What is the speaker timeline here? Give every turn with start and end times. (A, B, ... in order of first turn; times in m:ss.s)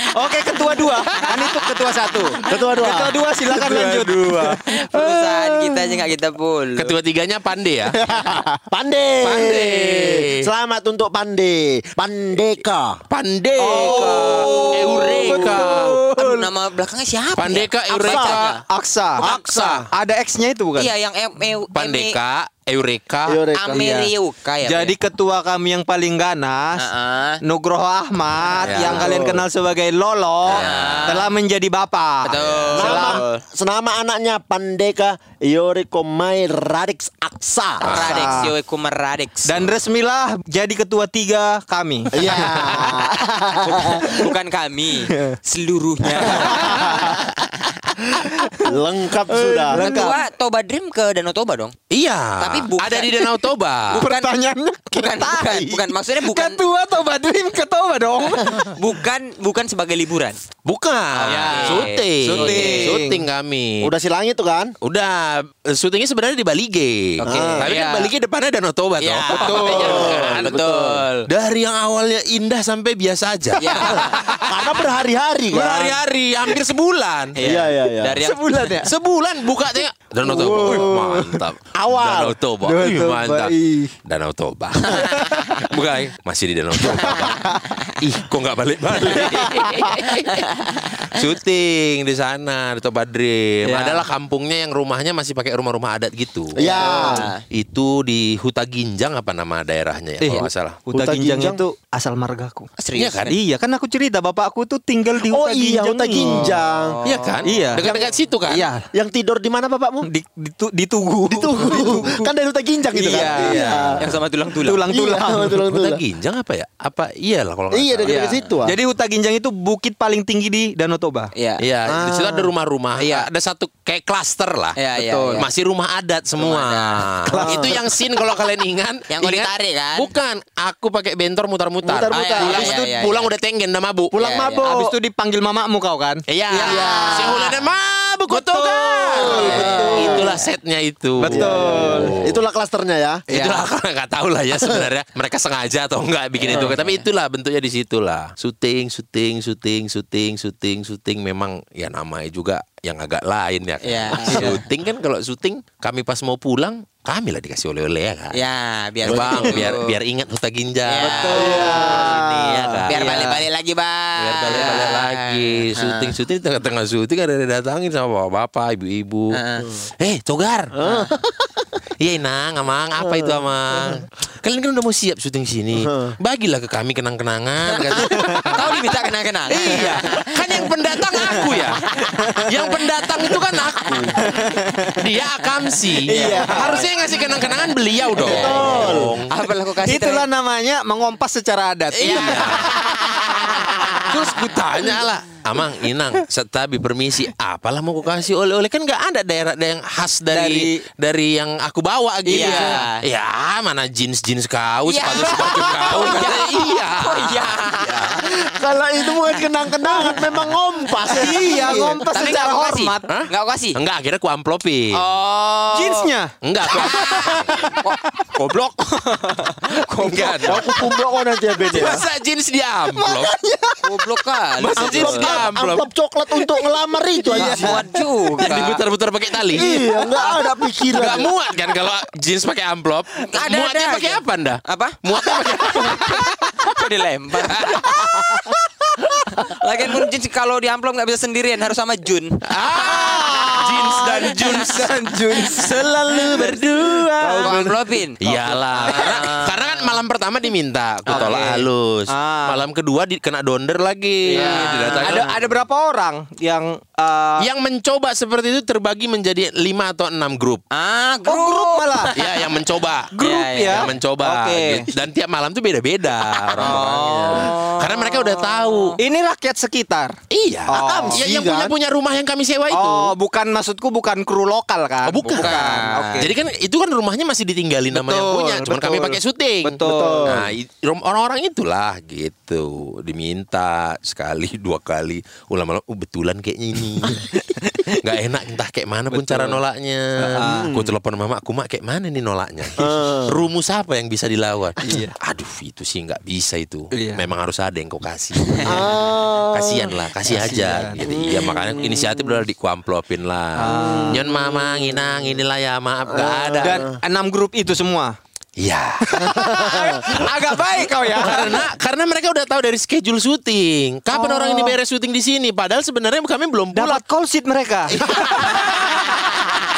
0:00.1-0:04.6 A
0:02.4-0:04.3 B
0:04.6-0:06.9 C
0:04.9-0:05.9 D
0:06.8-0:08.0 D
0:07.9-0:08.6 A
0:08.7-0:13.0 B
0:09.2-0:10.5 D
0:13.1-0:16.0 D
0:13.6-0:16.5 A
0:13.7-0:18.6 C
0:17.4-0:18.6 D
0:18.1-0:18.4 B
0:18.7-0:19.2 A
0:19.2-0:19.8 C
0:19.2-0:19.8 D
0:19.2-0:19.8 B
0:19.9-0:20.9 A
0:20.8-0:22.2 C
0:21.7-0:23.4 D
0:23.3-0:23.9 B
0:23.6-0:24.9 C
0:23.7-0:24.1 A
0:24.6-0:26.8 A
0:26.8-0:27.4 C
0:27.4-0:33.2 A
0:28.6-0:29.1 D
0:28.8-0:29.4 B
0:30.4-0:31.2 D
0:30.5-0:31.3 C
0:32.2-0:33.4 C
0:32.3-0:33.0 D
0:32.7-0:37.9 B
0:37.8-0:38.4 D
0:37.8-0:39.6 C
0:37.9-0:38.5 A
0:39.4-0:42.3 A
0:42.1-0:44.2 B
0:42.2-0:42.9 D
0:43.6-0:48.0 C
0:45.1-0:45.4 A
0:46.2-0:47.1 A
0:48.3-0:48.7 A
0:48.6-0:49.9 B
0:49.3-0:50.2 A
0:49.7-0:51.8 C
0:51.9-0:54.0 D
0:52.4-0:53.4 C
0:53.9-0:54.3 C
0:53.9-0:58.8 A
0:54.9-0:56.6 C
0:58.6-1:00.4 C
1:00.6-1:03.9 D
1:01.1-1:03.2 A
1:01.2-1:03.0 C
1:03.8-1:04.7 B
1:04.8-1:14.8 D
1:07.2-1:07.7 C
1:07.2-1:07.7 B
1:07.6-1:08.1 A
1:09.0-1:11.3 C
1:09.3-1:10.0 A
1:09.5-1:10.8 B
1:13.6-1:14.4 C
1:13.8-1:16.0 B
1:15.5-1:17.4 D
1:17.3-1:18.7 C
1:17.4-1:18.2 B
1:18.2-1:18.9 A
1:18.8-1:23.5 D
1:20.2-1:21.4 A
1:20.3-1:20.9 B
1:21.7-1:22.4 B
1:22.6-1:23.9 A
1:24.0-1:30.5 D
1:25.0-1:25.4 A
1:27.0-1:27.6 A
1:29.1-1:29.6 A
1:29.7-1:31.0 C
1:31.0-1:36.6 D
1:33.6-1:34.0 A
1:36.6-1:37.3 B
1:36.6-1:37.4 C
1:36.8-1:37.2 A
1:37.5-1:40.8 D
1:40.2-1:42.7 A
1:40.9-1:41.6 B
1:42.8-1:43.3 C
1:42.9-1:43.3 D
1:43.3-1:46.6 A
1:45.2-1:47.0 B
1:46.9-1:47.4 C
1:47.0-1:48.7 D
1:47.4-1:47.8 A
1:47.8-1:48.1 B
1:48.5-1:48.8 A
1:48.9-1:50.1 B
1:50.0-1:52.3 A
1:51.3-1:54.1 B
1:52.9-1:54.0 A
1:53.1-1:54.9 C
1:54.6-1:55.6 A
1:54.9-1:56.0 B
1:55.6-1:58.3 D
1:57.7-1:58.8 B
1:58.0-2:01.3 A
2:01.3-2:01.6 C
2:01.6-2:04.8 D
2:01.9-2:02.5 B
2:04.8-2:05.5 C
2:05.0-2:05.4 A
2:05.3-2:14.2 D
2:06.4-2:07.1 C
2:07.3-2:07.8 B
2:09.1-2:10.1 C
2:11.8-2:12.7 B
2:12.1-2:13.3 C
2:14.1-2:14.9 B
2:14.2-2:14.7 C
2:14.6-2:17.4 A
2:16.3-2:22.4 D
2:16.6-2:17.5 B
2:16.6-2:17.3 C
2:18.3-2:20.1 A
2:19.1-2:20.4 B
2:19.2-2:20.4 C
2:21.2-2:22.2 A
2:21.2-2:23.2 B
2:23.3-2:23.7 A
2:23.3-2:38.4 D
2:24.6-2:24.9 B
2:26.4-2:27.0 C
2:33.8-2:34.6 C
2:38.3-2:40.0 C
2:39.0-2:43.3 D
2:39.1-2:39.5 B
2:40.8-2:42.1 C
2:41.0-2:42.6 B
2:41.3-2:43.4 A
2:42.9-2:46.2 C
2:44.2-2:50.7 D
2:49.3-2:49.7 C
2:50.7-2:51.6 B
2:50.8-2:51.1 C
2:52.0-2:58.8 D
2:53.0-2:54.0 B
2:55.7-2:56.1 B
2:57.7-3:02.4 C
2:58.1-2:58.5 A
2:59.5-3:04.3 D
2:59.5-3:00.0 A
3:01.2-3:01.5 A
3:02.1-3:02.6 A
3:03.2-3:04.2 C
3:04.2-3:05.0 A
3:04.9-3:09.3 D
3:05.5-3:10.2 C
3:06.1-3:06.9 A
3:06.1-3:06.9 B
3:08.2-3:09.2 B
3:09.8-3:12.7 A
3:12.0-3:12.9 D
3:12.0-3:14.1 C
3:13.4-3:28.1 D
3:14.1-3:14.5 A
3:20.3-3:20.8 A
3:22.2-3:22.8 A
3:22.3-3:23.0 C
3:24.8-3:28.4 C
3:25.4-3:26.3 A
3:28.2-3:32.0 B
3:29.2-3:30.4 C
3:31.0-3:33.8 C
3:31.1-3:33.1 A
3:33.1-3:35.0 D
3:34.9-3:36.1 C
3:35.7-3:38.3 A
3:36.4-3:37.6 D
3:36.6-3:40.7 C
3:40.0-3:40.6 D
3:40.4-3:42.0 B
3:41.6-3:43.3 D
3:42.9-3:44.2 A
3:43.8-3:45.5 C
3:44.6-3:45.9 D
3:44.8-3:47.8 B
3:46.3-3:48.7 A
3:47.3-3:48.8 C
3:48.4-3:49.7 D
3:49.5-3:50.4 A
3:49.5-3:51.3 B
3:50.8-3:56.5 D
3:53.2-3:58.2 C
3:57.4-3:58.4 D
3:59.4-4:02.4 C
4:02.4-4:07.6 D
4:02.7-4:07.6 A
4:05.5-4:06.5 C
4:05.8-4:07.8 B
4:07.4-4:10.0 C
4:08.2-4:15.4 D
4:11.1-4:12.6 A
4:11.1-4:11.4 C
4:14.3-4:17.5 A
4:14.3-4:15.3 C
4:17.4-4:20.6 D
4:20.7-4:23.9 C
4:21.2-4:22.1 A
4:22.1-4:23.1 D
4:23.1-4:24.9 A
4:23.6-4:29.0 D
4:26.5-4:29.0 C
4:29.0-4:30.2 A
4:30.3-4:33.1 D
4:30.7-4:31.2 A
4:30.7-4:31.7 B
4:32.7-4:36.3 A
4:35.0-5:06.9 D
4:35.3-4:36.2 C
4:37.9-4:40.3 A
4:39.8-4:40.5 B
4:47.6-4:47.9 A
4:49.1-4:49.6 A
4:50.2-4:50.7 A
4:50.4-4:50.9 B
4:52.8-4:53.4 B
4:54.8-4:55.2 A
4:56.9-4:57.2 A
4:58.6-5:00.0 B
5:00.2-5:01.0 A
5:01.0-5:02.4 B
5:03.6-5:04.2 A
5:03.7-5:05.0 B
5:06.1-5:06.9 B
5:06.6-5:08.2 A
5:08.6-5:17.0 D
5:09.0-5:11.6 A
5:09.2-5:10.0 B
5:14.1-5:14.7 A
5:16.7-5:18.0 A
5:17.9-5:19.0 D
5:18.4-5:18.9 C